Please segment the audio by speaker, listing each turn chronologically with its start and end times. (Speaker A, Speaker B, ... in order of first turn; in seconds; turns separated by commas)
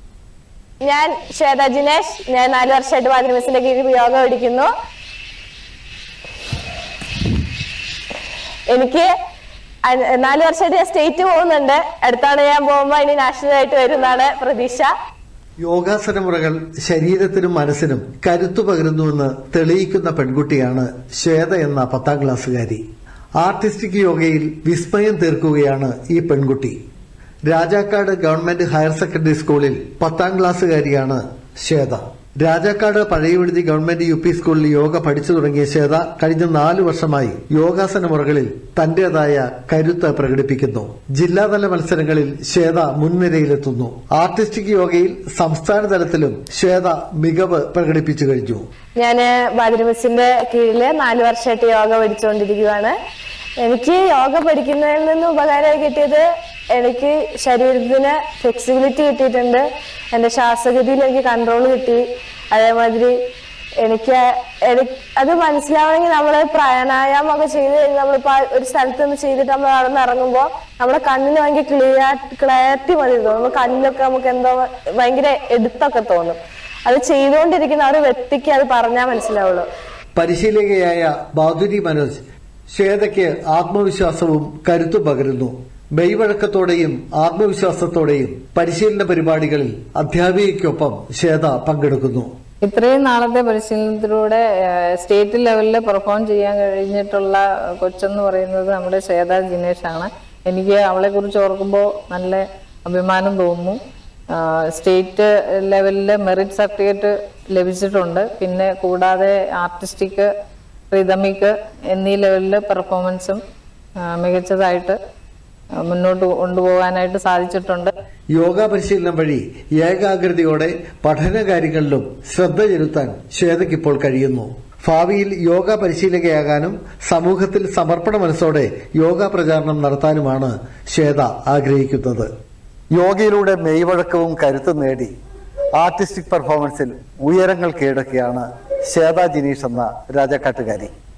Speaker A: 0.8-4.7, Speaker A: 8.7-9.1, Speaker A: 9.8-14.9, Speaker B: 15.6-22.8, Speaker B: 23.4-26.8, Speaker B: 27.5-48.6, Speaker A: 49.0-52.9, Speaker A: 53.6-56.2, Speaker A: 56.7-63.1, Speaker A: 63.8-79.7, Speaker B: 80.2-92.3, Speaker C: 92.6-103.8, Speaker C: 104.3-110.3, Speaker C: 110.9-113.4, Speaker C: 114.0-115.0, Speaker C: 115.7-117.9, Speaker B: 118.3-132.3, Speaker B: 132.9-135.1, Speaker B: 135.8-140.9